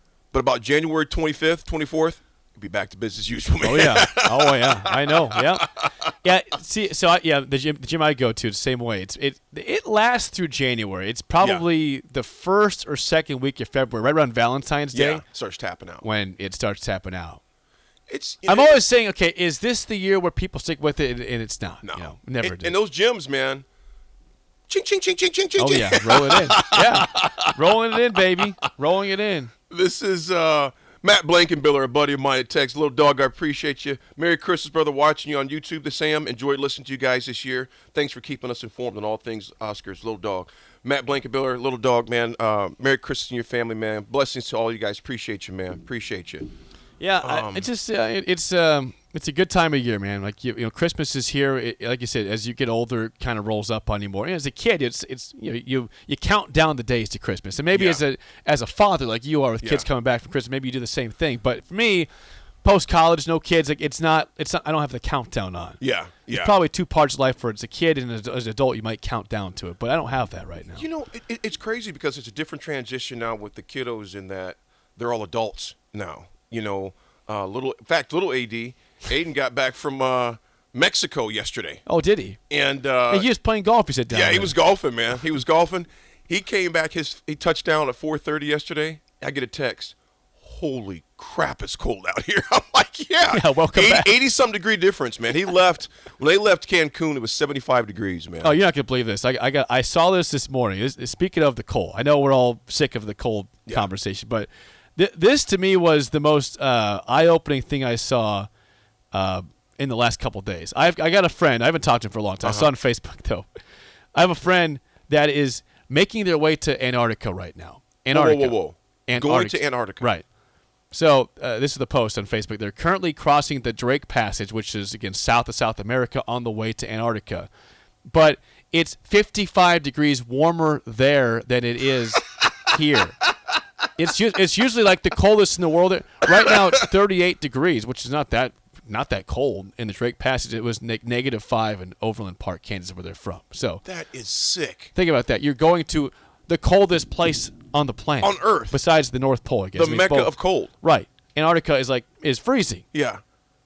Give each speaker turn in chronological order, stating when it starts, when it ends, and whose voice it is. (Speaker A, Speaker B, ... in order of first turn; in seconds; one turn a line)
Speaker A: 0.3-5.8
Speaker B: 3.6-15.2
Speaker A: 11.4-11.7
Speaker A: 14.9-16.1
Speaker B: 16.0-17.4
Speaker A: 18.1-18.8
Speaker B: 18.5-22.8
Speaker A: 21.8-23.6
Speaker A: 24.7-27.5
Speaker B: 25.6-29.5
Speaker A: 29.7-46.5
Speaker B: 47.0-62.1
Speaker A: 47.2-47.7
Speaker A: 57.7-58.0
Speaker A: 59.6-59.9
Speaker B: 62.6-70.8
Speaker A: 65.8-66.5
Speaker A: 70.7-81.8
Speaker B: 81.8-82.4
Speaker A: 82.5-83.3
Speaker B: 83.1-84.5
Speaker A: 84.1-98.6
Speaker B: 93.3-94.1
Speaker B: 98.4-108.5
Speaker B: 109.1-113.5
Speaker A: 112.4-112.7
Speaker B: 114.1-120.2
Speaker A: 118.1-120.1
Speaker B: 120.9-127.5
Speaker B: 128.1-133.2
Speaker B: 134.0-143.8
Speaker A: 143.8-144.9
Speaker B: 144.9-152.8
Speaker A: 148.2-148.8
Speaker A: 149.7-150.7
Speaker A: 152.9-153.2